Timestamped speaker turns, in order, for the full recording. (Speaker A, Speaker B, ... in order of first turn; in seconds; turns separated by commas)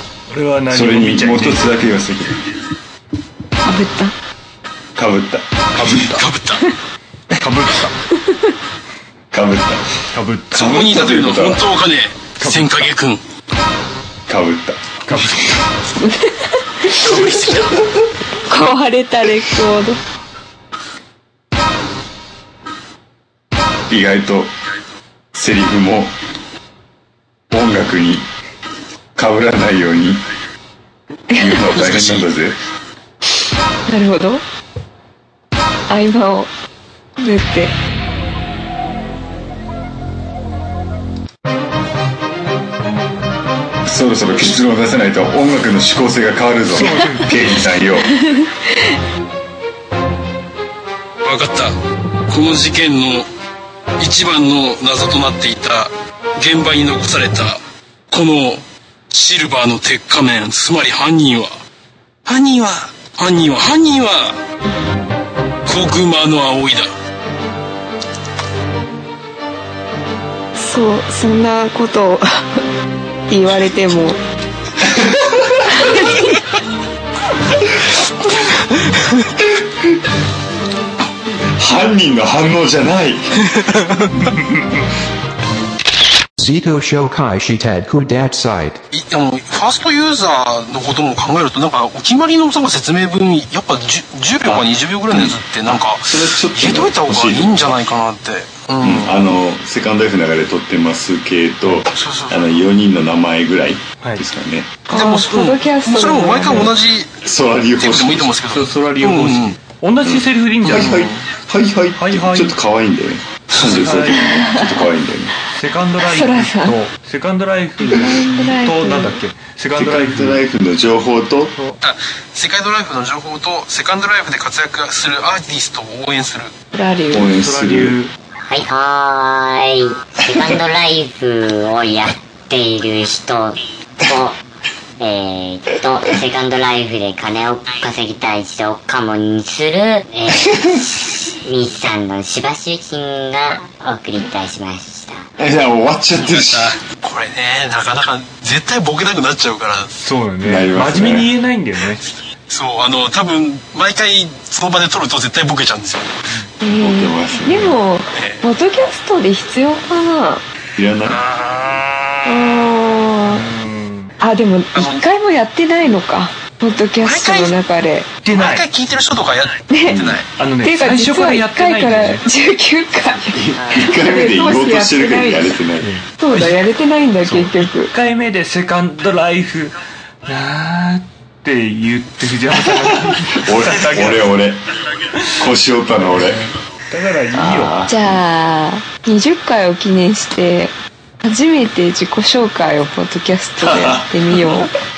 Speaker A: 0.3-1.9, Speaker B: 0.7-2.5, Speaker C: 3.6-4.1, Speaker B: 5.0-6.2, Speaker D: 5.7-6.7, Speaker A: 7.3-7.9, Speaker B: 9.3-9.8, Speaker A: 10.1-11.0, Speaker D: 10.5-13.2, Speaker B: 10.9-11.7, Speaker A: 12.4-12.9, Speaker B: 14.3-14.9, Speaker A: 15.1-15.5, Speaker C: 16.0-17.4, Speaker D: 17.0-17.8, Speaker C: 18.4-20.0, Speaker B: 23.9-24.5, Speaker B: 25.3-26.1, Speaker B: 27.5-28.3, Speaker B: 29.2-30.3, Speaker C: 31.3-31.6, Speaker B: 31.3-32.6, Speaker D: 31.7-32.3, Speaker C: 33.9-34.4, Speaker C: 35.9-36.5, Speaker C: 37.2-37.7, Speaker B: 43.9-48.2, Speaker A: 46.7-47.4, Speaker D: 51.2-51.7, Speaker D: 52.3-53.3, Speaker D: 54.0-61.6, Speaker D: 62.3-64.4, Speaker D: 65.7-66.9, Speaker C: 70.6-72.6, Speaker C: 73.3-74.2, Speaker B: 74.9-75.8, Speaker B: 81.6-83.4, Speaker E: 86.4-88.8, Speaker D: 88.9-99.2, Speaker B: 95.1-97.8, Speaker B: 98.8-104.8, Speaker D: 101.9-102.6, Speaker D: 104.9-107.1, Speaker C: 104.9-106.7, Speaker B: 107.2-108.3, Speaker D: 107.8-109.6, Speaker A: 108.5-111.0, Speaker B: 110.0-115.3, Speaker D: 110.7-111.3, Speaker A: 112.0-112.6, Speaker A: 113.6-114.3, Speaker C: 114.3-114.8, Speaker A: 115.5-120.5, Speaker C: 116.0-116.8, Speaker C: 117.8-119.2, Speaker B: 119.8-121.5, Speaker D: 121.8-126.5, Speaker C: 126.7-127.3, Speaker B: 127.1-128.0, Speaker A: 127.2-128.1, Speaker F: 128.6-129.8, Speaker F: 130.3-134.4, Speaker F: 135.0-140.5, Speaker B: 140.5-141.1, Speaker F: 141.4-145.2, Speaker B: 145.4-146.8, Speaker D: 146.2-149.9, Speaker A: 150.0-152.0, Speaker B: 150.4-151.3, Speaker D: 152.5-156.1, Speaker C: 156.6-160.4, Speaker B: 156.7-157.8, Speaker D: 158.2-158.5, Speaker B: 160.8-161.2, Speaker D: 161.0-162.6, Speaker C: 162.2-163.5, Speaker A: 163.4-164.1, Speaker C: 164.2-168.1, Speaker D: 164.7-165.0, Speaker D: 167.0-167.6, Speaker A: 168.2-168.7, Speaker D: 168.3-170.3, Speaker C: 169.7-170.0, Speaker B: 169.8-170.2, Speaker A: 170.4-172.2, Speaker C: 170.6-175.6, Speaker B: 173.3-175.9, Speaker A: 175.8-176.7, Speaker C: 176.2-177.9, Speaker A: 177.2-184.4, Speaker B: 183.0-184.7, Speaker B: 185.3-186.4, Speaker A: 186.0-187.8, Speaker B: 187.3-188.2, Speaker C: 187.9-194.7, Speaker B: 193.6-194.1